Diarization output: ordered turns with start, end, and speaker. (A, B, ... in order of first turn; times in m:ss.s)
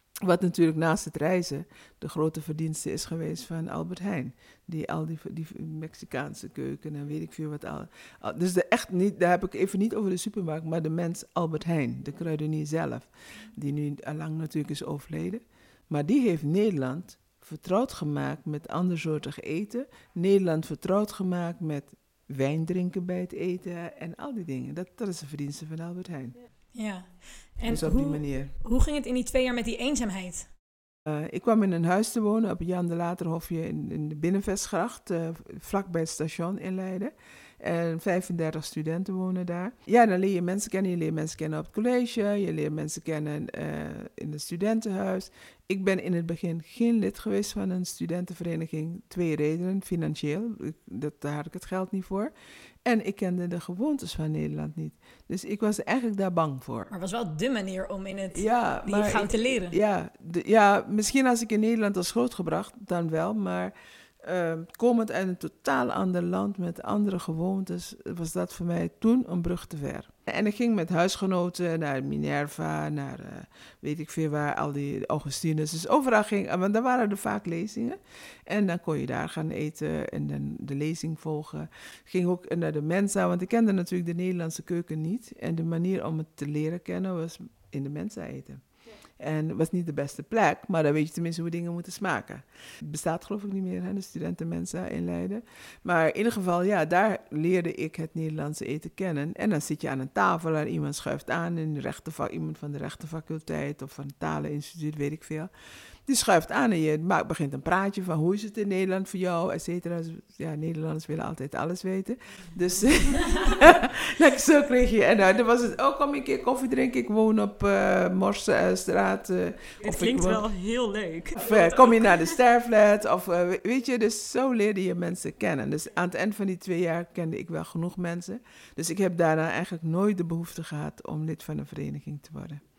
0:00.2-0:26.4 A
0:26.7-0:30.5 B
0:27.7-0:28.5 A
0:31.1-0:52.3 A
0:52.8-0:56.9 A
0:56.9-0:59.8 B
0:58.3-1:28.6 A
1:29.2-1:45.5 A
1:46.1-2:00.4 A
1:59.8-2:02.3 C
2:01.4-2:12.6 A